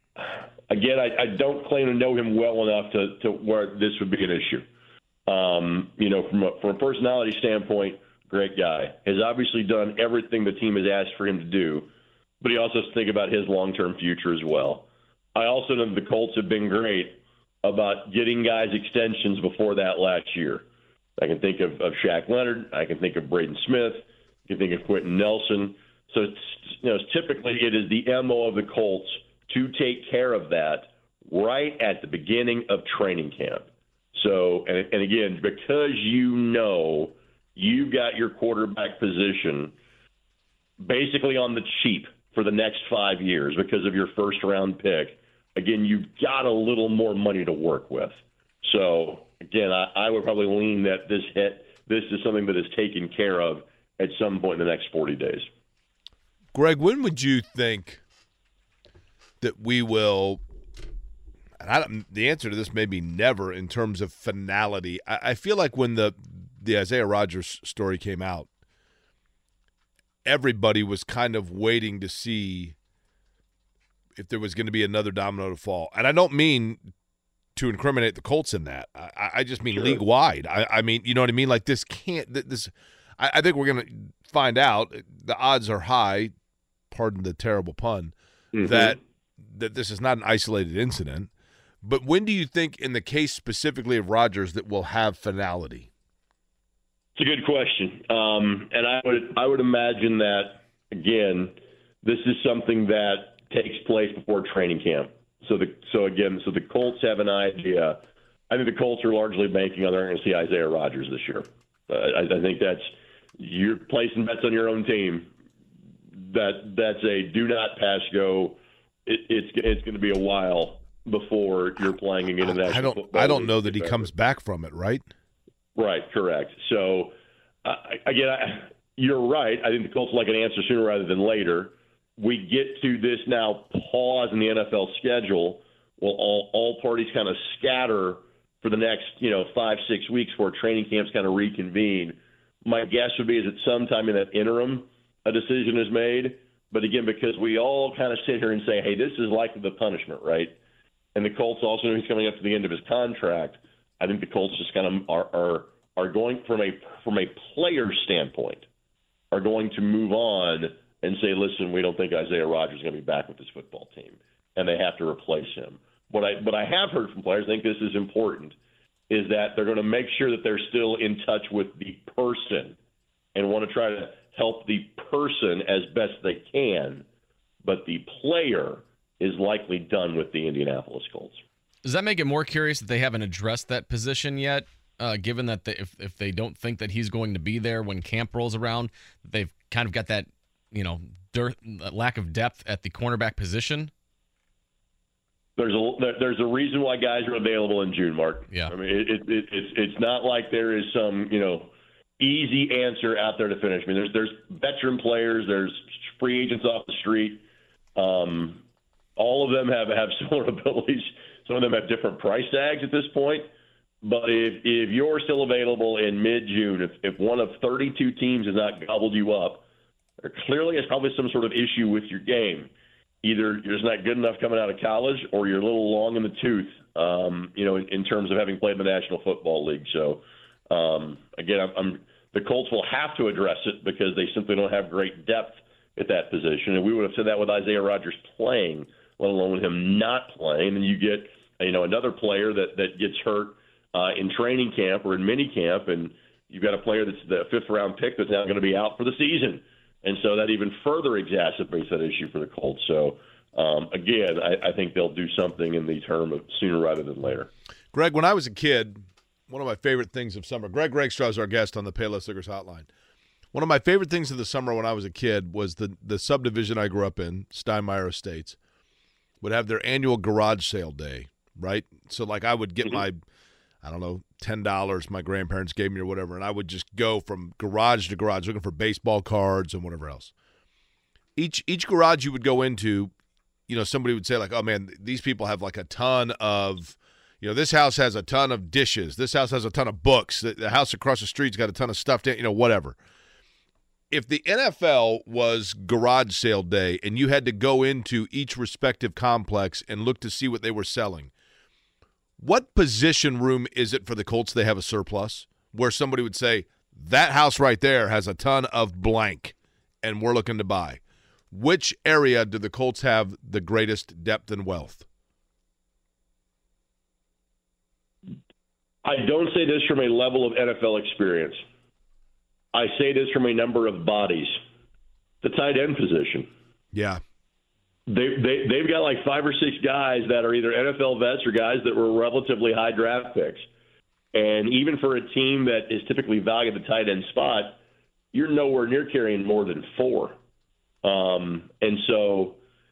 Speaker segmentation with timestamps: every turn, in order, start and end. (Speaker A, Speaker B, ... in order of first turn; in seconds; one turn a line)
Speaker A: 0.2-4.6
Speaker A: 5.3-11.9
Speaker A: 12.4-20.6
Speaker A: 21.2-39.7
Speaker A: 40.8-55.5
Speaker B: 56.5-58.0
Speaker B: 59.4-60.4
Speaker B: 61.6-68.5
Speaker B: 70.2-72.7
Speaker B: 74.2-76.8
Speaker B: 77.5-86.3
Speaker B: 86.9-91.3
Speaker A: 88.5-89.0
Speaker B: 91.8-95.9
Speaker A: 97.2-115.3
Speaker A: 116.1-124.1
Speaker B: 122.4-125.0
Speaker A: 125.8-127.1
Speaker A: 127.6-150.6
Speaker A: 151.1-158.7
Speaker A: 159.3-168.6
Speaker A: 169.1-172.8
Speaker A: 173.3-177.0
Speaker A: 177.6-181.4
Speaker C: 181.8-193.9
Speaker A: 195.6-207.4
Speaker A: 207.9-208.6
Speaker A: 209.2-213.5
Speaker A: 214.0-219.6
Speaker A: 220.2-222.7
Speaker A: 223.2-257.5
Speaker B: 257.9-262.9
Speaker B: 263.5-268.6
Speaker B: 269.4-273.2
Speaker B: 273.8-280.3
Speaker B: 281.4-283.1
Speaker B: 283.7-293.0
Speaker B: 294.1-301.3
Speaker B: 302.4-311.0
Speaker B: 311.5-315.0
Speaker A: 319.0-321.6
Speaker A: 322.7-324.6
Speaker A: 325.4-326.5
Speaker B: 326.9-327.2
Speaker A: 328.1-333.6
Speaker A: 334.3-337.8
Speaker A: 338.3-340.4
Speaker A: 341.0-342.6